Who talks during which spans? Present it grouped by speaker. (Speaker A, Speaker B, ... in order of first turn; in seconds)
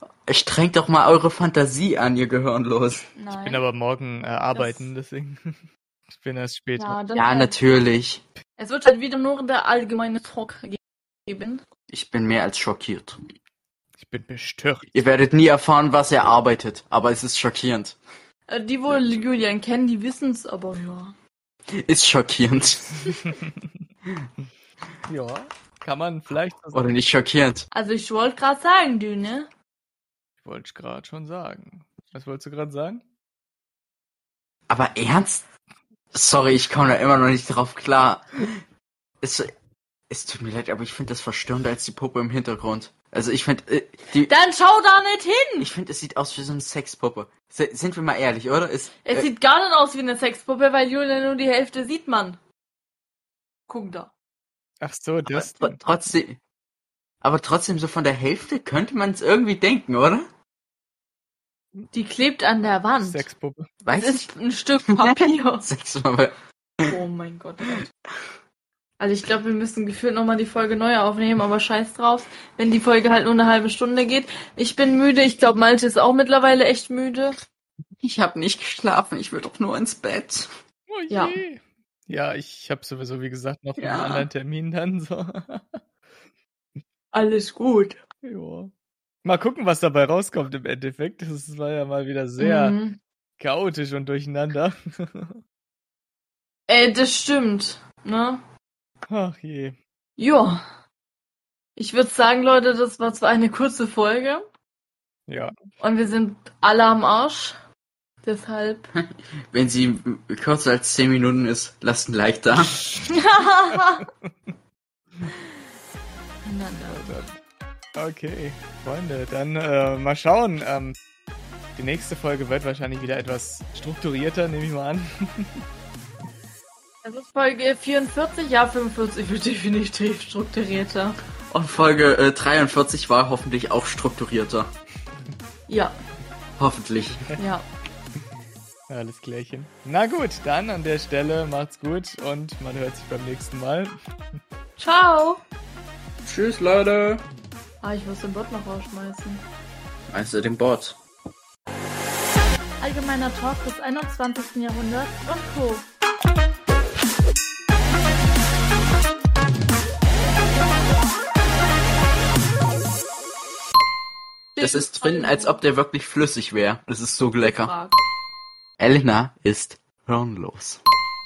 Speaker A: 0.3-3.1, 7.2-8.2, 11.9-13.2, 14.9-18.0, 21.8-23.2, 26.7-27.7, 34.7-35.5, 36.1-38.6, 39.2-39.5, 40.1-44.3, 45.6-49.3, 55.3-56.4, 57.2-60.3, 63.8-64.3, 64.9-66.9, 78.0-80.5, 83.8-84.3, 109.0-112.8, 131.5-134.7, 136.6-137.3, 146.2-147.2, 150.1-151.0, 164.6-167.7, 168.8-170.8
Speaker B: 3.2-3.7, 4.5-4.9, 6.8-7.6, 8.6-11.6, 18.5-21.2, 27.7-29.5, 44.2-45.7, 49.0-52.4, 53.7-54.1, 61.9-63.3, 64.0-65.7, 66.9-67.9, 69.0-77.3, 81.1-81.4, 87.1-88.0, 92.4-93.0, 96.7-98.4, 100.2-100.6, 101.8-104.4, 105.8-107.6, 108.2-108.9, 113.0-114.1, 116.5-117.1, 127.0-131.2, 135.7-135.9, 137.4-137.7, 144.8-145.4, 147.8-149.5, 152.8-155.9, 164.6-165.6, 167.4-168.0
Speaker C: 3.4-7.0, 14.0-14.9, 23.1-23.7, 25.1-26.9, 30.4-33.0, 54.8-55.8, 63.0-63.7, 80.9-85.8, 88.2-88.7, 89.2-92.8, 93.4-95.4, 99.1-99.8, 105.3-105.5, 114.0-114.3, 116.9-117.4, 118.0-121.0, 121.8-125.6, 138.9-144.0